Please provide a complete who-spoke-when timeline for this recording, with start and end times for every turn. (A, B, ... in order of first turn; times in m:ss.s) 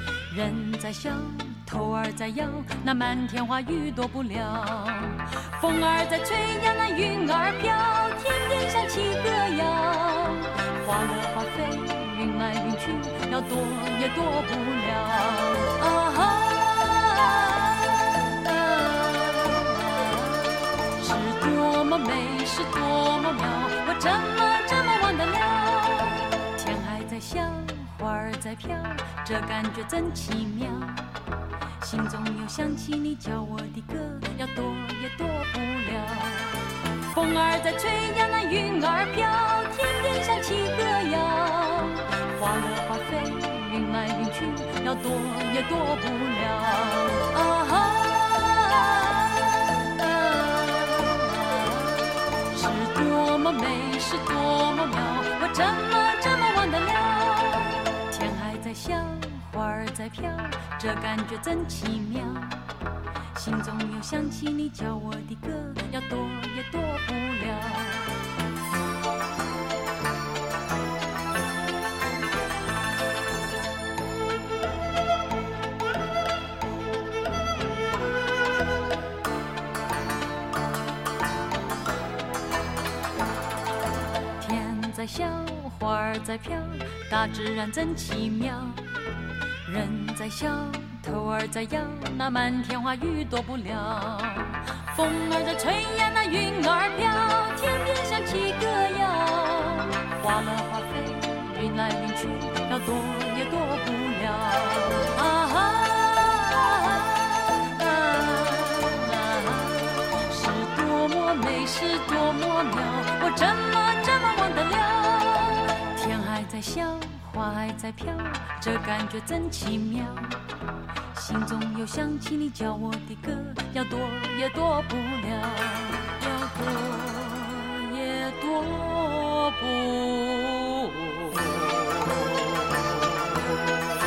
0:00.3-0:31.1 A
0:31.8-0:36.6 A
0:37.1-1:02.6 A
1:03.3-1:08.2 A
1:24.4-1:28.9 A
1:29.6-2:00.4 A
2:01.1-2:12.3 A